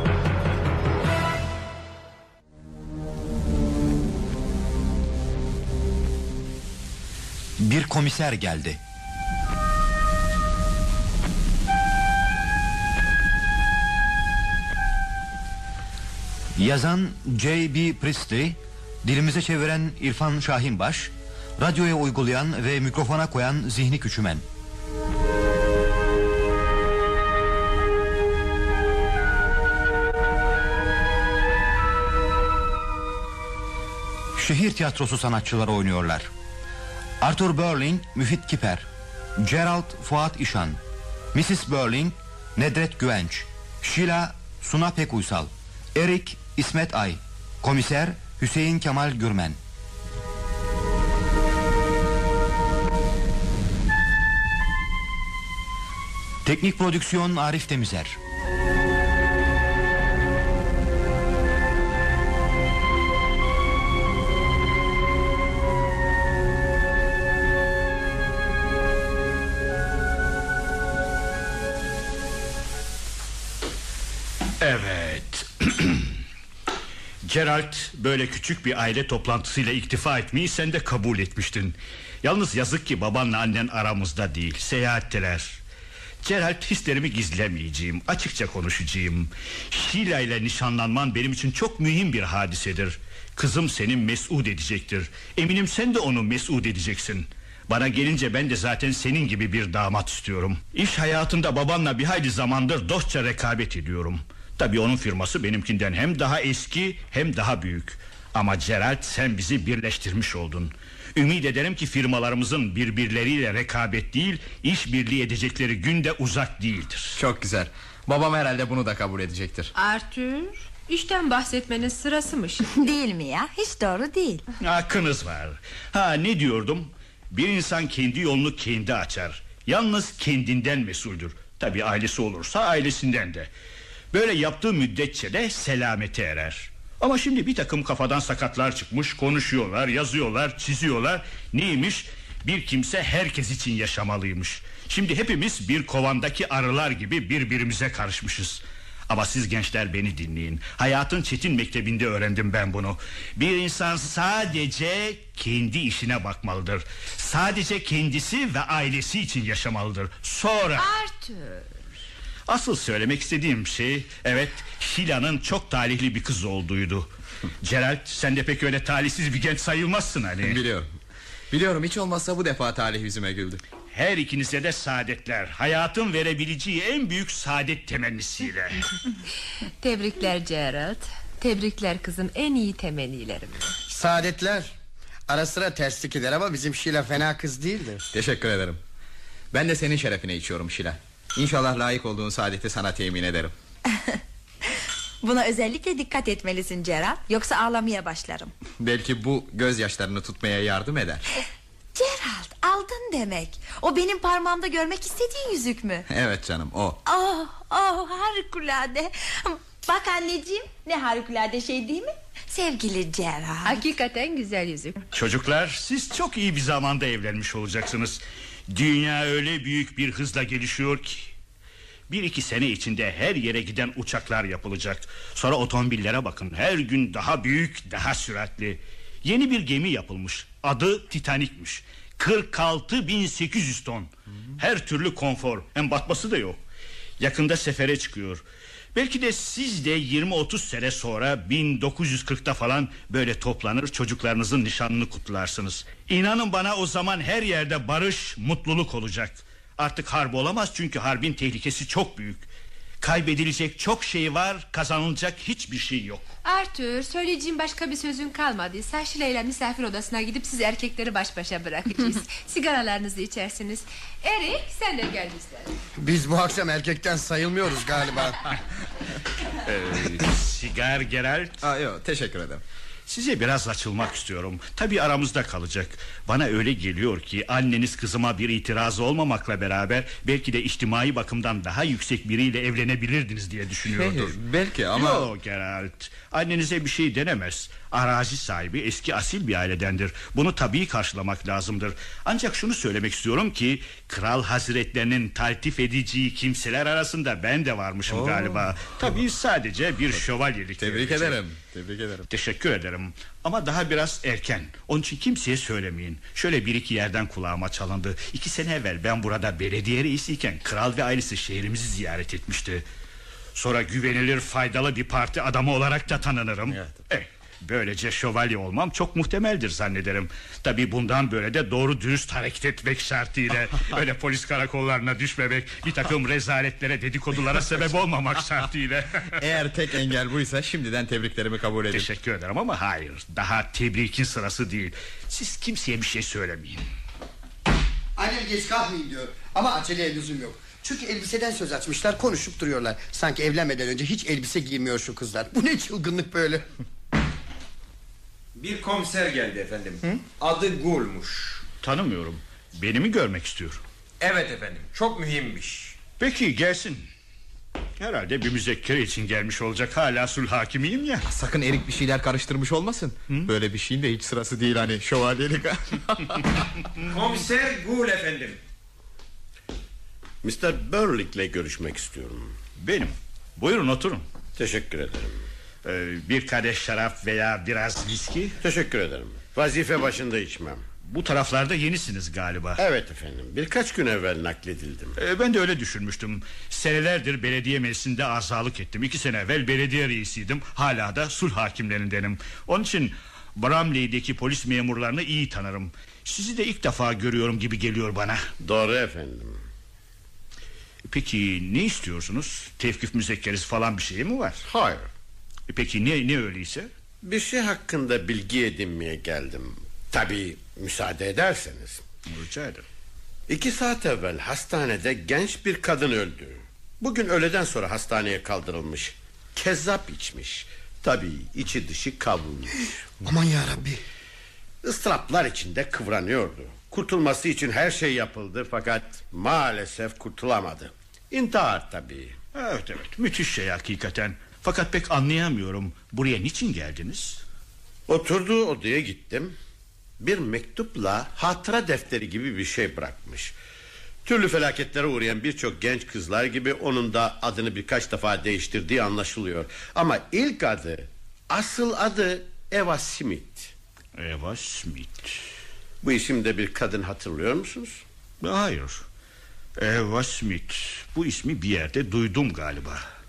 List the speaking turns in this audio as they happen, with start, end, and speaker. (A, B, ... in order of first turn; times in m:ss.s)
0:07.6-0:08.8 A
0:16.6-0:24.4 A
0:34.4-0:36.3 A
0:37.2-0:38.9 A
0:39.4-0:40.8 A
0:41.3-0:49.6 A
0:56.4-0:58.2 A
1:14.6-1:16.2 B
1:17.2-1:25.6 B
1:26.2-1:57.2 B
1:57.2-1:59.7 C
1:59.8-2:02.6 D
2:02.6-2:04.4 E
2:04.6-2:13.5 B
2:14.1-2:41.0 B
2:40.8-2:41.7 D
2:42.5-2:47.1 B
2:47.6-2:50.6 B
2:50.4-2:50.9 C
2:51.5-2:53.6 C
2:53.9-2:58.9 B
2:59.8-3:03.8 D
3:03.9-3:04.7 F
3:05.3-3:08.0 F
3:08.1-3:08.8 C
3:09.5-3:13.5 C
3:13.9-3:14.2 E
3:15.2-3:18.5 E
3:18.8-3:21.3 C
3:22.0-3:26.1 E
3:26.1-3:27.0 C
3:27.0-3:33.8 E
3:33.6-3:35.0 D
3:35.1-3:41.3 B
3:42.1-3:56.6 B
3:57.2-3:58.4 B
3:59.0-4:12.5 B
4:13.0-4:16.3 B
4:16.4-4:25.7 D
4:26.0-4:28.4 F
4:29.6-4:31.6 B
4:31.6-4:32.6 C
4:33.1-4:44.4 B
4:43.9-4:45.3 C
4:44.9-5:01.4 B
4:58.1-4:58.7 C
5:00.8-5:02.3 C
5:02.3-5:12.8 B
5:13.6-5:29.4 B
5:16.7-5:17.0 C
5:29.4-5:32.1 C
5:31.9-5:36.8 B
5:38.2-5:46.7 F
5:48.6-5:51.6 G
5:51.8-5:53.8 B
5:54.2-5:56.0 G
5:56.2-5:57.1 B
5:58.0-6:01.3 B
6:01.3-6:06.4 C
6:07.1-6:08.6 G
6:10.4-6:12.5 H
6:12.8-6:14.2 B
6:14.6-6:15.4 H
6:15.8-6:18.6 B
6:18.6-6:20.8 H
6:21.1-6:22.8 B
6:22.8-6:25.2 H
6:25.2-6:38.4 B
6:38.6-6:39.6 H
6:41.1-6:44.6 B
6:44.7-6:45.1 H
6:45.7-6:46.9 B
6:47.2-6:52.0 H
6:52.3-6:52.8 B
6:53.5-7:02.9 H
7:03.2-7:04.0 F
7:04.8-7:12.4 H
7:12.5-7:17.4 B
7:18.1-7:19.6 H
7:20.2-7:23.6 H
7:24.2-7:33.7 H
7:34.2-7:35.4 B
7:36.0-7:38.0 H
7:38.4-7:39.0 B
7:39.8-7:43.0 B